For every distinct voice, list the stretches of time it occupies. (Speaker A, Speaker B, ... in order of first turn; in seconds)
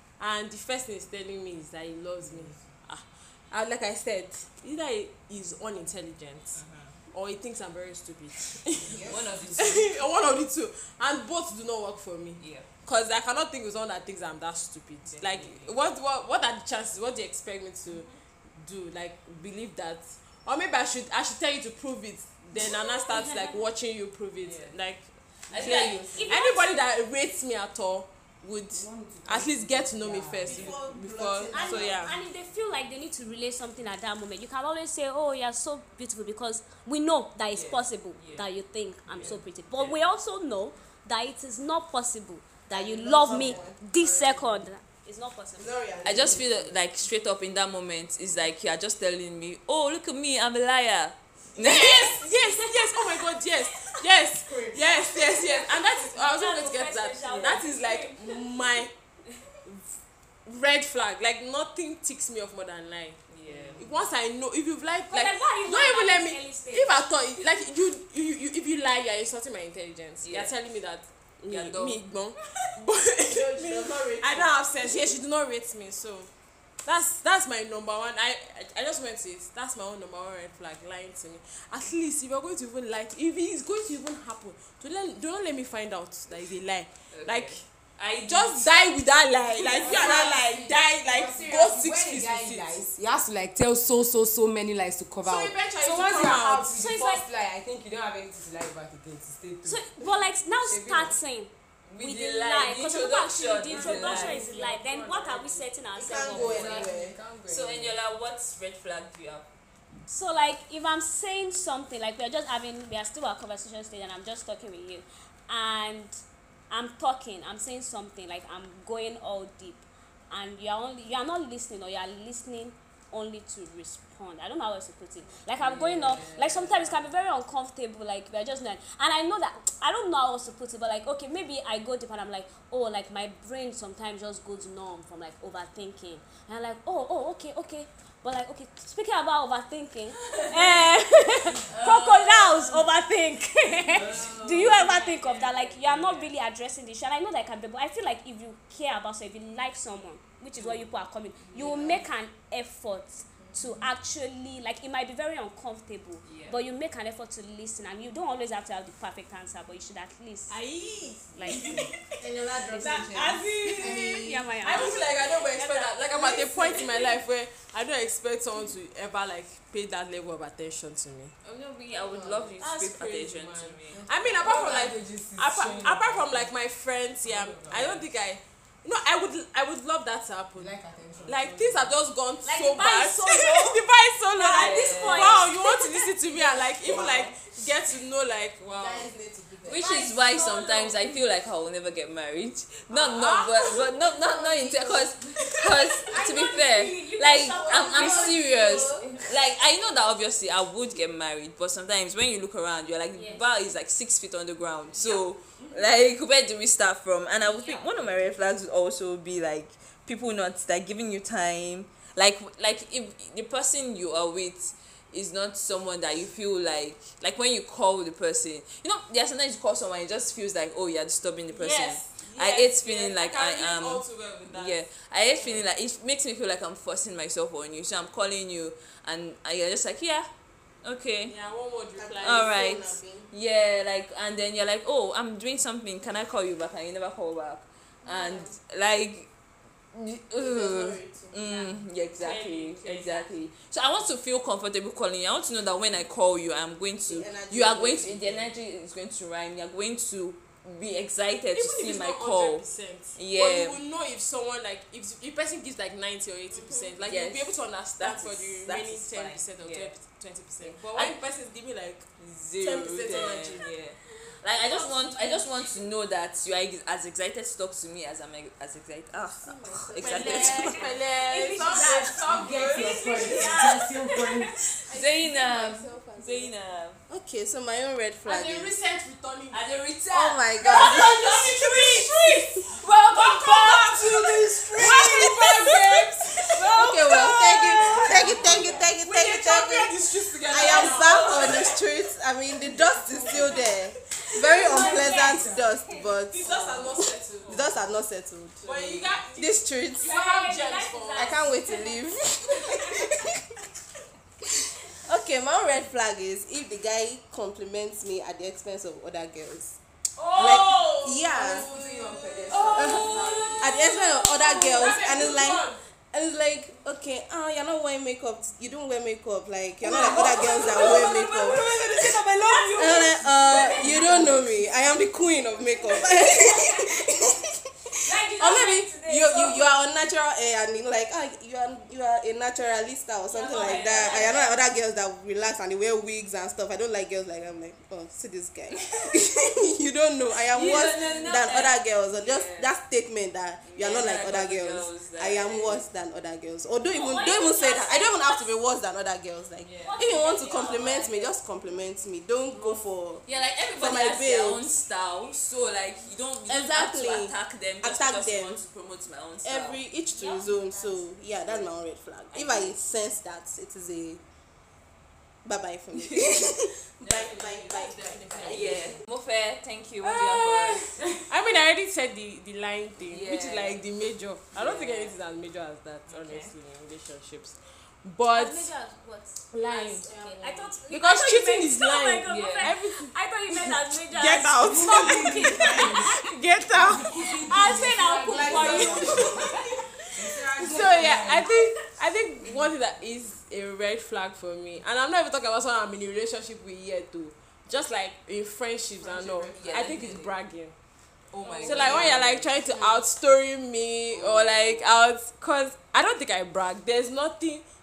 Speaker A: 0.2-32.2, 51.6-58.9, 59.6-63.2, 63.7-76.3, 76.8-87.6, 88.2-92.8, 95.2-96.8, 160.5-171.3, 172.6-189.1, 192.9-193.8, 221.5-225.6, 231.2-232.7, 242.1-243.3, 251.5-263.7, 270.0-273.1, 278.2-279.7, 280.7-287.4, 288.0-291.8, 292.8-293.5, 294.8-295.2, 296.3-297.7, 298.6-301.4, 310.2-315.8, 320.3-322.0, 323.7-324.1, 367.0-369.0, 370.0-378.7, 379.5-380.1, 380.9-387.1, 388.6-389.5, 390.5-400.7, 401.6-407.6
Speaker B: 6.5-7.0, 8.9-9.9, 12.4-12.7, 15.1-15.7, 24.4-24.7, 25.5-26.2, 37.5-38.4, 39.1-40.0, 46.0-52.3, 57.2-57.6, 63.3-63.9, 70.2-70.5, 71.5-72.0, 87.1-88.9, 101.9-104.4, 107.4-109.5, 125.6-127.0, 140.3-140.9, 141.5-142.8, 143.9-146.3, 150.6-150.8, 151.5-152.0, 156.2-156.6, 171.4-174.0, 184.6-185.4, 189.6-230.3, 230.8-231.3, 232.2-239.3, 239.9-253.8, 257.1-259.9, 260.6-261.2, 262.2-270.8, 272.2-273.6, 274.9-277.0, 279.5-288.8, 290.5-291.8, 310.2-315.0, 319.8-324.3, 333.6-334.4, 338.9-339.3, 340.5-342.7, 343.6-345.8, 349.6-349.9, 352.5-359.8, 361.4-361.7, 362.3-362.8, 365.9-366.4, 367.0-367.5, 368.4-371.0, 373.1-373.8, 374.5-375.1, 376.1-376.5, 382.2-382.7, 399.0-400.3, 401.3-403.0, 404.1-405.0
Speaker C: 22.6-23.7, 25.6-26.8, 31.5-45.7, 52.4-52.9, 55.1-58.8, 65.1-67.1, 96.7-97.2, 99.7-106.9, 110.1-160.6, 161.3-161.8, 163.7-166.0, 182.4-183.8, 184.3-186.1, 189.7-191.2, 196.0-199.3, 203.1-203.5, 205.0-205.7, 207.4-208.0, 264.8-265.5, 270.8-274.5, 294.2-296.0, 300.0-303.1, 322.4-324.1, 325.7-326.9, 328.0-329.7, 333.3-334.5, 346.8-348.5, 349.8-351.3, 360.1-361.2, 378.3-385.9, 387.5-389.6, 401.4-401.9
Speaker D: 25.6-26.1, 30.4-32.1, 42.7-44.5, 45.5-46.8, 54.4-55.0, 73.2-75.1, 89.7-90.7, 106.0-107.2, 161.5-165.1, 166.1-166.8, 172.0-172.5, 186.3-187.5, 188.7-189.8, 194.4-195.0, 197.3-199.1, 231.9-233.3, 238.0-238.5, 240.3-241.8, 247.1-248.5, 256.5-257.0, 269.4-271.0, 274.9-276.5, 277.1-278.7, 280.1-281.6, 284.8-285.7, 286.6-300.2, 301.1-303.3, 305.0-309.8, 310.4-311.9, 312.4-322.1, 322.8-327.5, 328.1-353.2, 353.8-354.6, 356.5-358.6, 359.4-364.2, 365.4-369.0, 380.1-380.7, 384.2-385.8, 388.3-389.7
Speaker E: 28.7-30.7, 89.7-100.0, 100.6-101.2, 103.7-105.7, 106.2-108.0, 174.0-176.5, 177.2-178.0, 180.6-181.9, 272.1-274.5, 311.7-312.4, 313.1-313.4, 384.6-386.0, 386.8-389.5, 390.1-391.5